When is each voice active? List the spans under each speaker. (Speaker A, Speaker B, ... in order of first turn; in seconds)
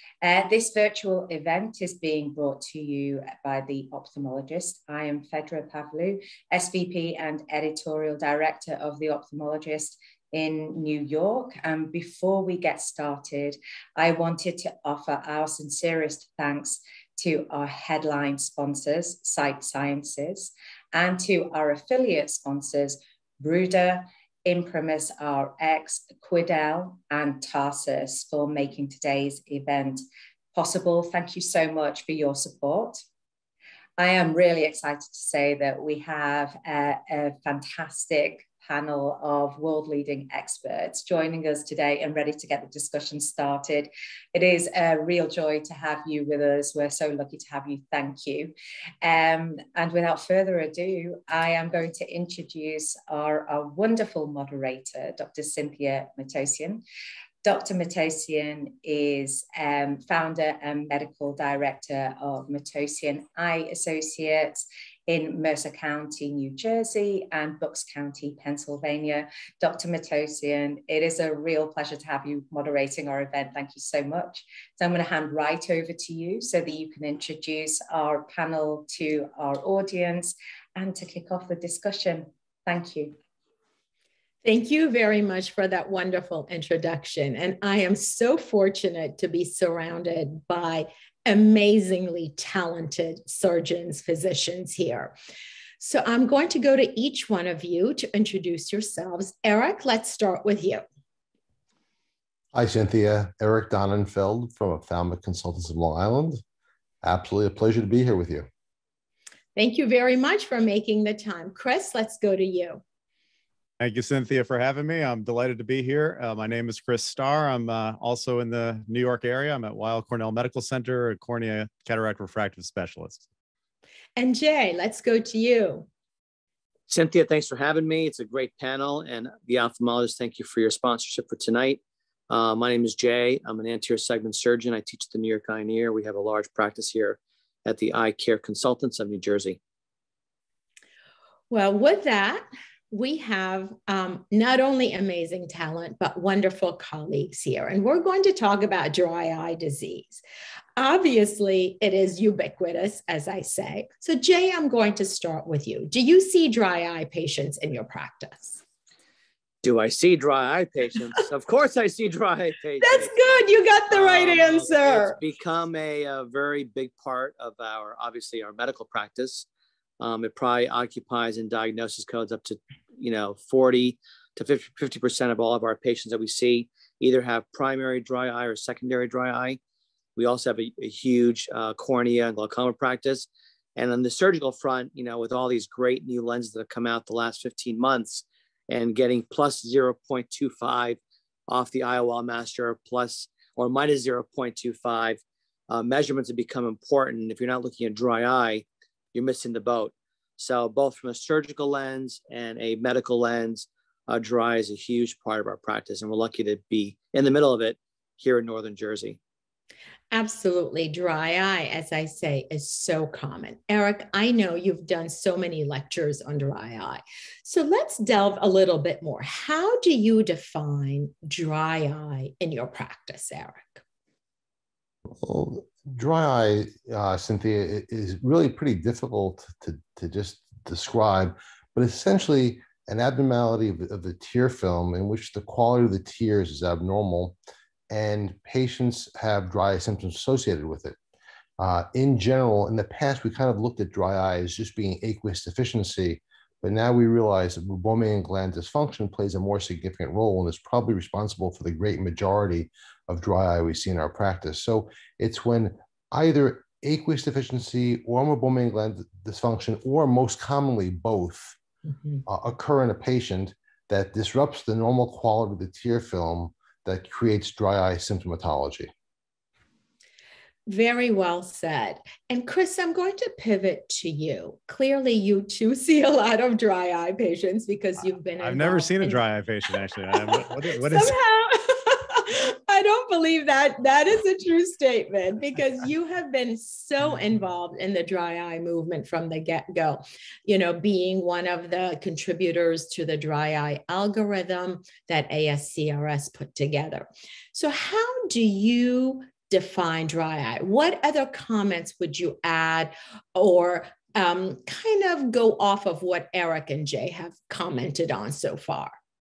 Speaker A: 0.2-30.0, 30.5-33.0, 34.0-56.8, 57.4-83.1
Speaker B: 84.4-95.1, 95.8-100.8, 109.5-112.8, 124.2-125.9, 141.5-150.2, 150.8-158.6, 162.8-165.2, 210.1-223.8, 270.7-279.2, 280.0-308.9
Speaker C: 102.5-106.4, 107.0-108.5, 225.2-237.3, 237.9-241.0, 241.6-261.6, 262.2-268.9
Speaker D: 113.8-123.2, 278.4-281.1
Speaker E: 126.9-139.6, 159.6-169.4, 170.0-179.6, 180.2-209.2